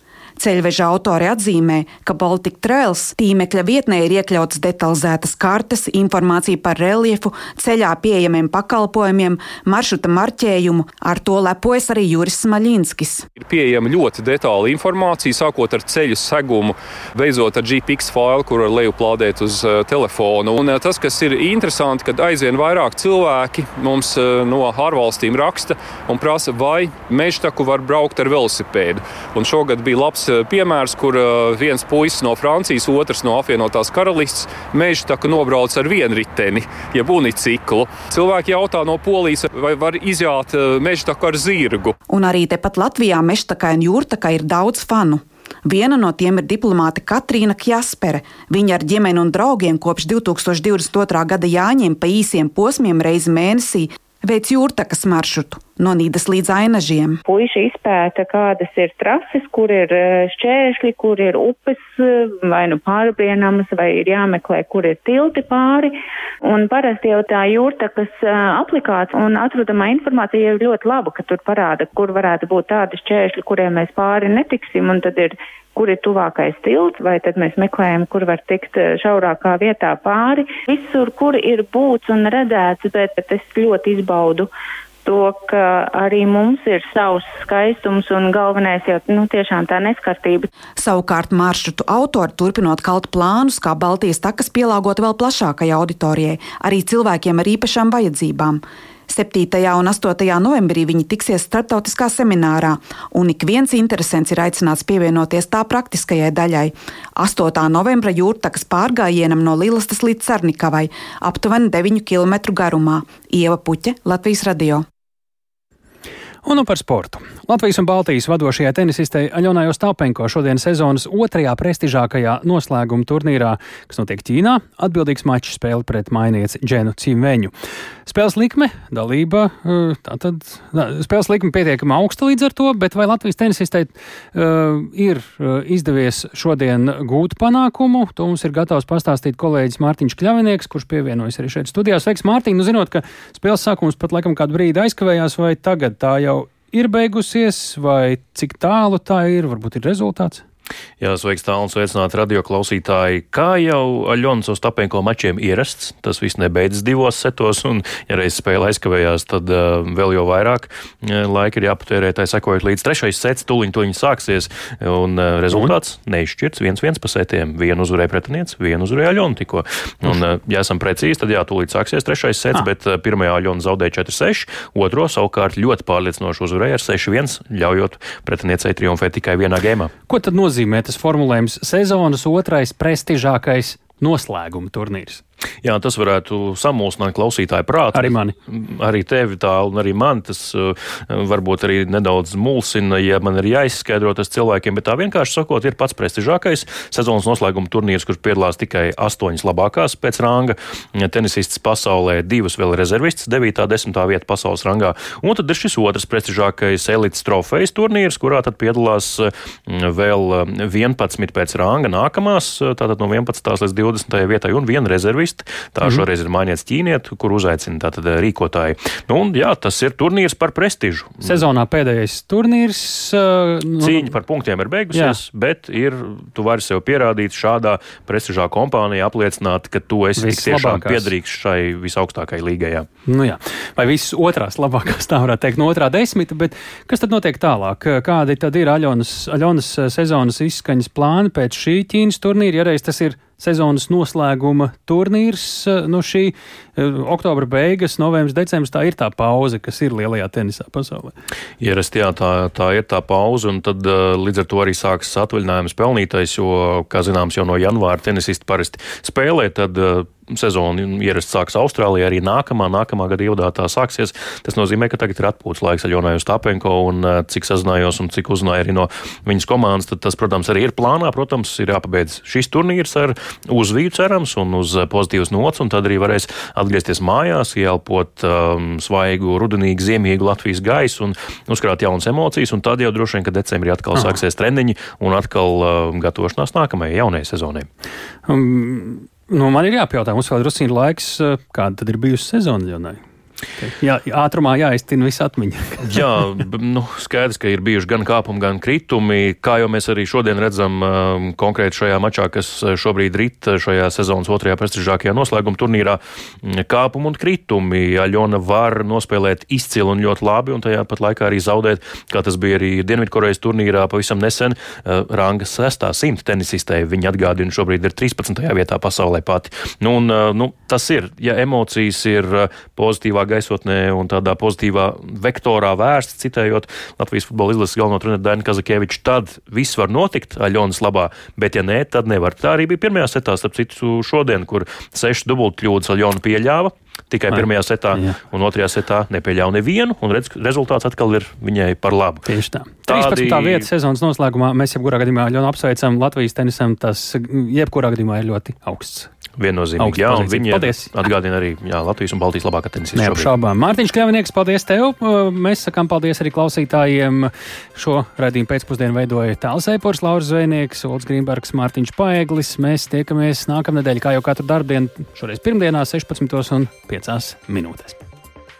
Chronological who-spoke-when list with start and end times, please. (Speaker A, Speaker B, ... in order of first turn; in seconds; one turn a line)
Speaker A: 0.4-13.2
Speaker B: 13.4-42.0
Speaker A: 42.1-57.2
Speaker C: 57.2-65.9
Speaker C: 66.4-84.5
Speaker C: 85.0-90.5
Speaker A: 90.8-114.8
Speaker D: 116.4-127.5
Speaker D: 128.1-150.4
Speaker E: 151.0-179.9
Speaker D: 180.1-185.2
Speaker E: 185.6-221.4
Speaker D: 187.9-188.3
Speaker D: 221.2-224.1
Speaker E: 223.8-232.9
Speaker D: 224.9-225.2
Speaker D: 230.2-231.1
Speaker D: 233.1-251.1
Speaker E: 251.6-287.7
Speaker D: 288.3-293.0
Speaker D: 293.6-296.1
Speaker E: 295.9-342.2
Speaker D: 337.3-338.2
Speaker D: 342.3-349.1
Speaker E: 342.9-343.7
Speaker E: 349.4-353.3
Speaker D: 349.8-350.9
Speaker D: 352.9-368.0